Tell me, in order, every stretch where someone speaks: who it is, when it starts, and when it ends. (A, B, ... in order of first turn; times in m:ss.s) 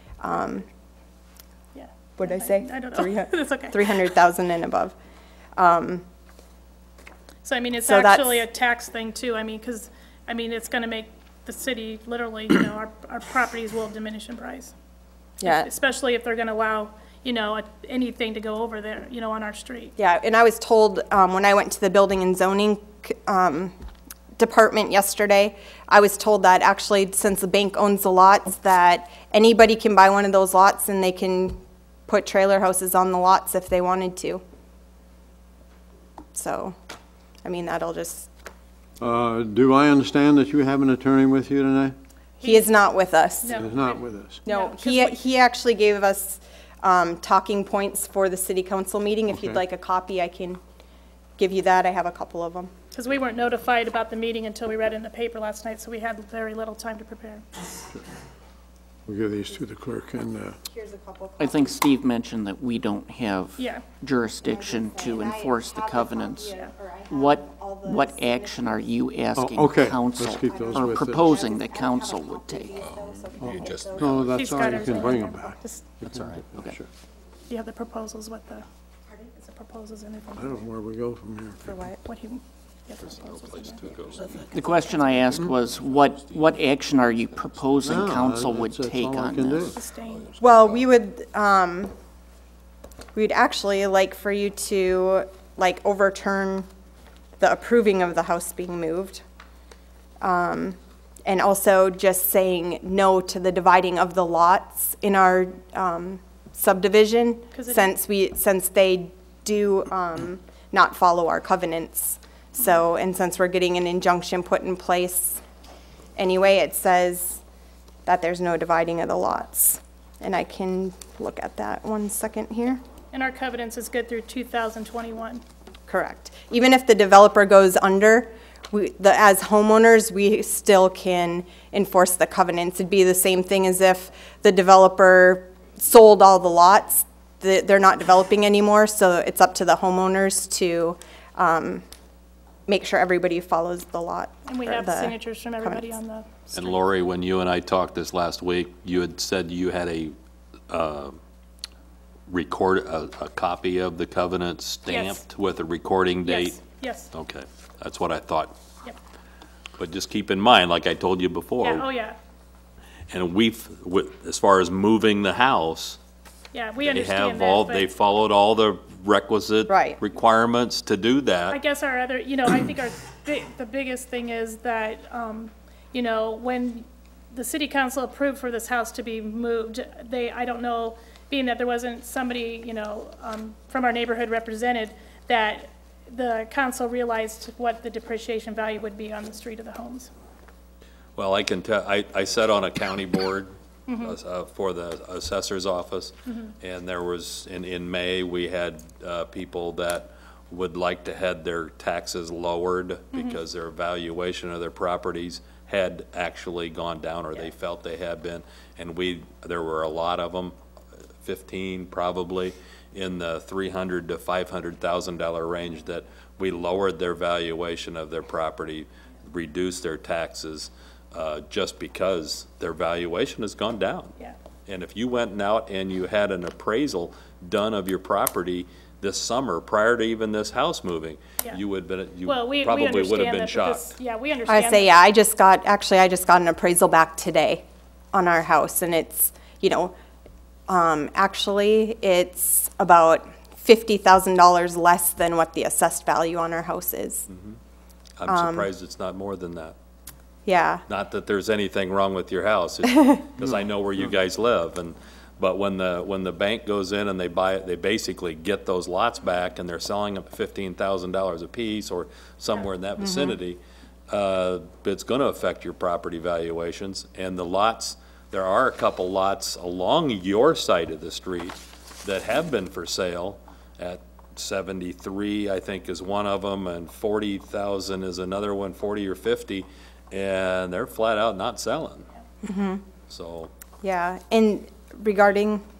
0:00.2-0:00.6 A
0:01.7-0:03.9 B
0:02.2-0:04.9 A
0:05.6-0:06.0 A
0:07.4-0:14.7 B
0:07.8-0:08.4 A
0:15.4-0:15.7 A
0:15.4-0:20.0 B
0:20.0-0:23.7 A
0:24.4-0:34.4 A
0:36.3-0:36.7 A
0:37.4-0:38.3 A
0:39.0-0:42.0 C
0:42.4-0:42.7 B
0:42.4-0:43.7 A
0:43.4-0:45.2 B
0:43.5-0:44.4 C
0:44.4-0:50.6 A
0:49.3-0:49.6 C
0:51.4-0:52.7 A
0:52.9-0:57.4 B
0:59.1-1:00.6 C
1:00.6-1:01.8 A
1:01.4-1:06.5 D
1:03.6-1:03.8 B
1:04.4-1:08.9 A
1:07.1-1:12.8 D
1:09.4-1:11.4 C
1:10.3-1:14.4 A
1:12.8-1:14.3 E
1:13.4-1:16.9 C
1:14.3-1:15.8 B
1:16.3-1:16.8 D
1:17.5-1:18.6 B
1:19.4-1:20.7 B
1:20.4-1:21.6 C
1:21.6-1:22.0 A
1:22.0-1:23.9 B
1:23.3-1:24.3 E
1:24.5-1:29.8 D
1:27.8-1:29.8 C
1:29.7-1:30.4 B
1:30.4-1:31.9 A
1:33.2-1:36.7 A
1:37.4-1:39.2 A
1:40.2-1:55.4 A
1:47.5-1:47.9 B
1:56.2-1:57.4 A
1:58.1-2:02.8 A
2:03.1-2:05.4 B
2:05.9-2:21.8 A
2:22.7-2:25.9 A
2:24.5-2:26.8 B
2:26.6-2:30.1 E
2:30.7-2:31.2 E
2:32.3-2:36.6 E
2:34.9-2:35.2 B
2:36.2-2:37.1 B
2:37.1-2:38.5 E
2:39.8-2:41.9 E
2:41.6-2:42.2 B
2:43.1-2:46.0 E
2:46.5-2:47.9 B
2:46.8-2:51.6 E
2:49.7-2:50.0 A
2:51.5-3:10.1 B
3:11.2-3:30.6 E
3:13.9-3:14.2 B
3:23.1-3:23.4 B
3:31.2-3:44.1 E
3:44.7-3:53.9 E
3:52.2-3:54.9 B
3:54.5-3:59.9 A
4:00.7-4:07.3 A
4:07.3-4:07.6 E
4:08.2-4:09.8 E
4:08.3-4:08.7 A
4:10.4-4:10.8 A
4:10.9-4:42.1 E
4:23.0-4:23.4 A
4:42.4-4:42.8 A
4:43.1-4:43.5 E
4:43.8-4:45.6 A